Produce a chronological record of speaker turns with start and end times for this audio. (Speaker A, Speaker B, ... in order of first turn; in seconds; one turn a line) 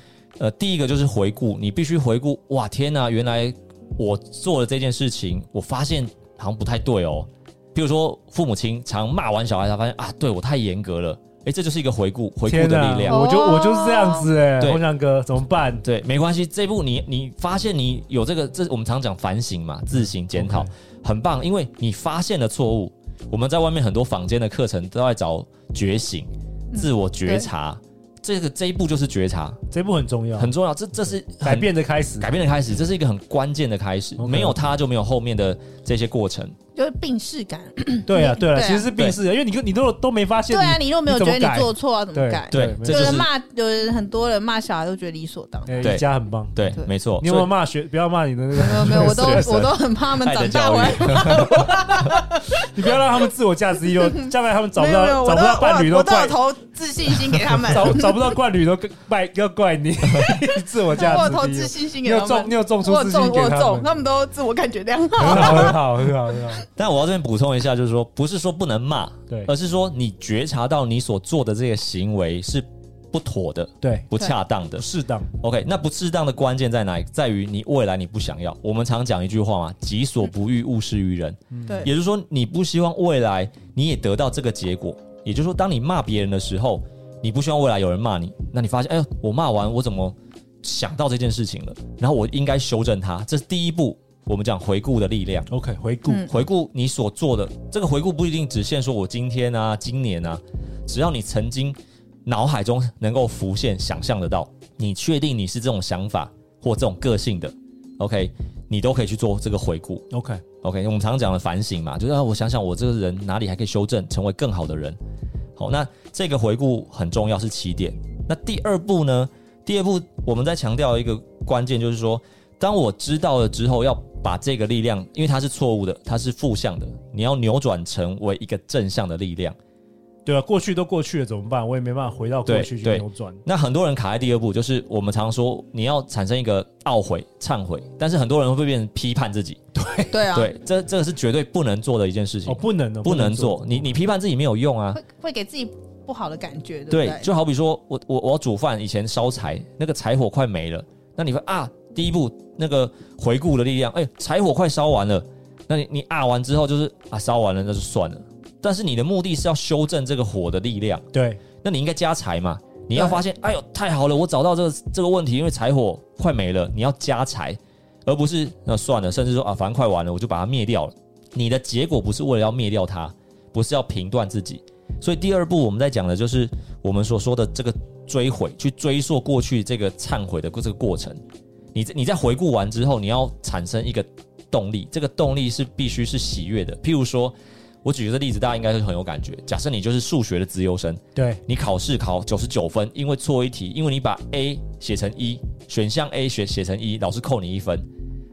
Speaker A: 0.4-13.2
Speaker B: 12.5-15.8
Speaker C: 13.1-14.3
Speaker A: 15.8-29.6
Speaker B: 19.9-20.7
Speaker C: 26.7-27.5
Speaker B: 29.7-32.3
Speaker A: 30.4-36.6
Speaker B: 34.2-34.6
Speaker C: 36.7-38.9
Speaker B: 38.0-43.2
Speaker A: 38.9-39.2
Speaker C: 40.5-45.9
Speaker A: 42.5-43.3
Speaker B: 45.7-46.6
Speaker A: 45.8-47.5
Speaker B: 47.2-49.7
Speaker C: 48.5-52.7
Speaker A: 48.9-52.1
Speaker B: 52.5-56.4
Speaker C: 53.9-58.2
Speaker B: 57.6-63.9
Speaker A: 60.1-60.4
Speaker C: 60.9-66.6
Speaker B: 65.2-66.6
Speaker A: 65.3-65.7
Speaker A: 66.7-74.8
Speaker B: 73.8-74.1
Speaker B: 74.8-75.3
Speaker A: 75.4-95.5
Speaker B: 81.5-81.9
Speaker C: 81.7-81.9
Speaker B: 95.5-96.3
Speaker A: 96.2-110.0
Speaker B: 110.1-110.4
Speaker A: 110.6-115.0
Speaker A: 115.6-129.6
Speaker B: 130.2-133.4
Speaker A: 132.4-139.6
Speaker B: 139.8-140.1
Speaker C: 140.1-140.5
Speaker A: 140.3-145.0
Speaker B: 142.4-143.9
Speaker C: 144.9-147.3
Speaker A: 146.9-161.0
Speaker B: 161.1-161.4
Speaker A: 161.6-181.2
Speaker A: 181.7-197.9
Speaker B: 191.1-191.4